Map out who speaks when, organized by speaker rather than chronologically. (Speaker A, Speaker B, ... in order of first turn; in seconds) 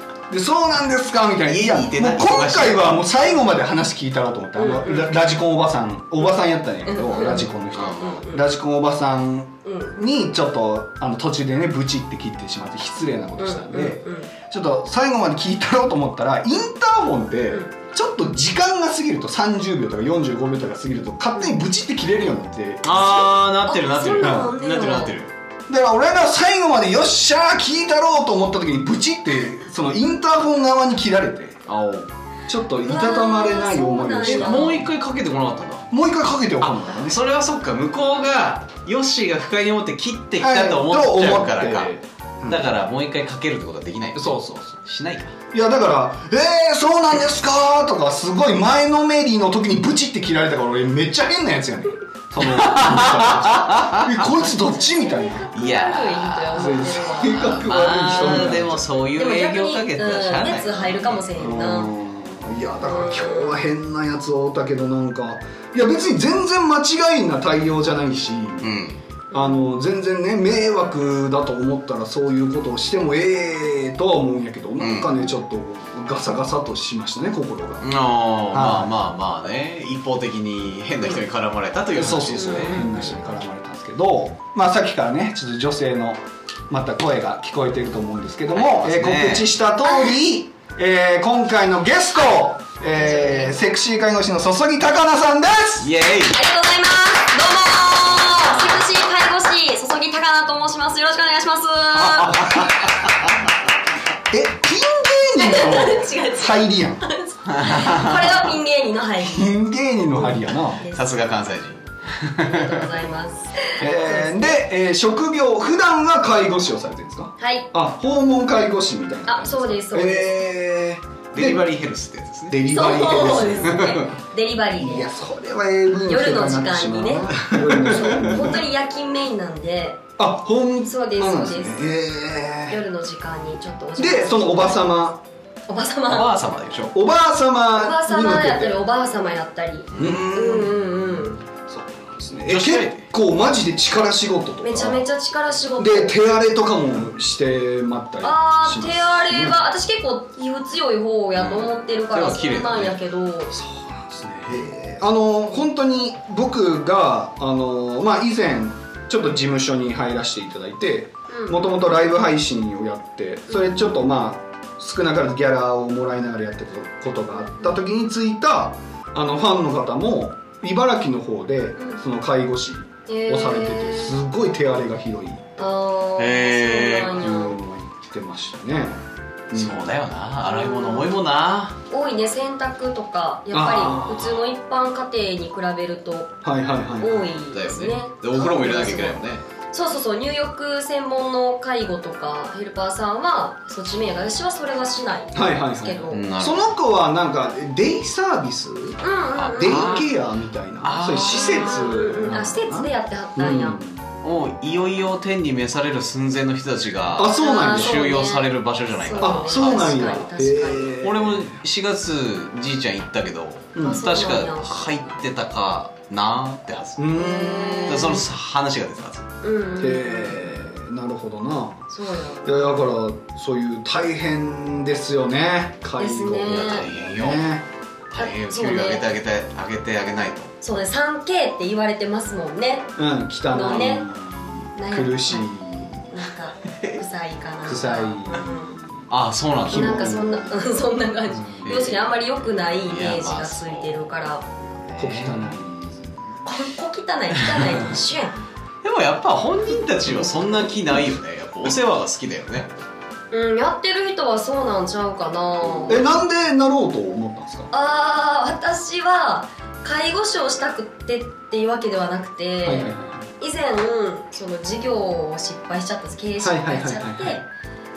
Speaker A: 0.3-23.3, 24.2-24.5, 25.7-31.6, 32.5-34.8, 35.9-37.2, 40.4-42.7, 44.1-44.8, 45.5-55.5, 56.5-58.8, 61.3-68.7, 69.3-77.9, 78.5-78.9, 82.0-95.9, 102.3-102.6, 104.3-107.0, 109.2-110.8, 113.8-121.6, 122.5-124.0, 124.8-128.6, 130.2-132.8, 134.0-135.2, 136.9-138.8, 139.9-145.0, 145.8-149.6, 153.5-175.7, 177.2-179.8, 183.5-184.4, 186.4-187.2, 195.3-199.0, 199.6-204.0, 207.2-208.0, 209.2-211.6, 213.7-214.0, 217.0-218.2, 219.8-221.9, 222.4-227.6, 233.0-236.1, 237.6-239.1, 239.6-240.4, 241.3-241.7, 245.0-246.2, 255.9-257.7, 262.6-263.3, 266.4-267.4
Speaker B: 1.5-2.9, 7.7-8.2, 22.8-25.3, 31.7-32.1, 34.2-35.9, 36.6-41.9, 42.5-45.3, 52.4-54.3, 55.5-61.2, 68.6-69.0, 74.8-75.3, 77.8-83.0, 88.5-89.5, 95.8-96.4, 102.1-103.2, 107.5-108.4, 110.9-112.8, 121.3-122.6, 123.6-124.1, 136.1-136.9, 139.9-140.3, 142.4-143.1, 151.3-153.0, 176.2-177.1, 179.5-181.8, 187.5-189.4, 196.1-196.7, 199.3-200.1, 200.8-202.2, 204.2-210.1, 211.0-219.3, 226.4-227.5, 228.1-230.5, 239.1-240.3, 241.6-244.1, 244.8-245.6, 248.8-252.7
Speaker C: 4.6-5.1, 6.8-8.4, 9.6-10.0, 13.4-14.3, 23.7-25.1, 32.8-34.8, 54.6-61.9, 62.8-63.6, 69.3-69.6, 82.3-83.4, 92.9-93.5, 96.3-102.6, 105.3-109.5, 110.8-111.0, 112.4-114.6, 117.4-117.7, 119.2-120.3, 122.7-125.1, 126.1-130.0, 130.8-131.8, 132.7-134.9, 135.7-136.3, 137.7-141.4, 144.6-146.1, 148.2-153.5, 161.3-161.7, 163.5-163.8, 173.1-174.1, 175.6-177.6, 180.4-181.1, 181.9-186.3, 187.0-189.2, 189.7-196.2, 199.0-200.0, 201.2-203.8, 207.3-210.9, 213.8-215.2, 217.1-218.2, 219.4-220.7, 221.9-222.8, 226.0-226.9, 228.2-229.0, 230.6-232.9, 233.5-234.0, 234.7-235.4, 236.1-238.8, 239.7-244.4, 246.4-248.3, 253.3-256.0, 257.7-267.5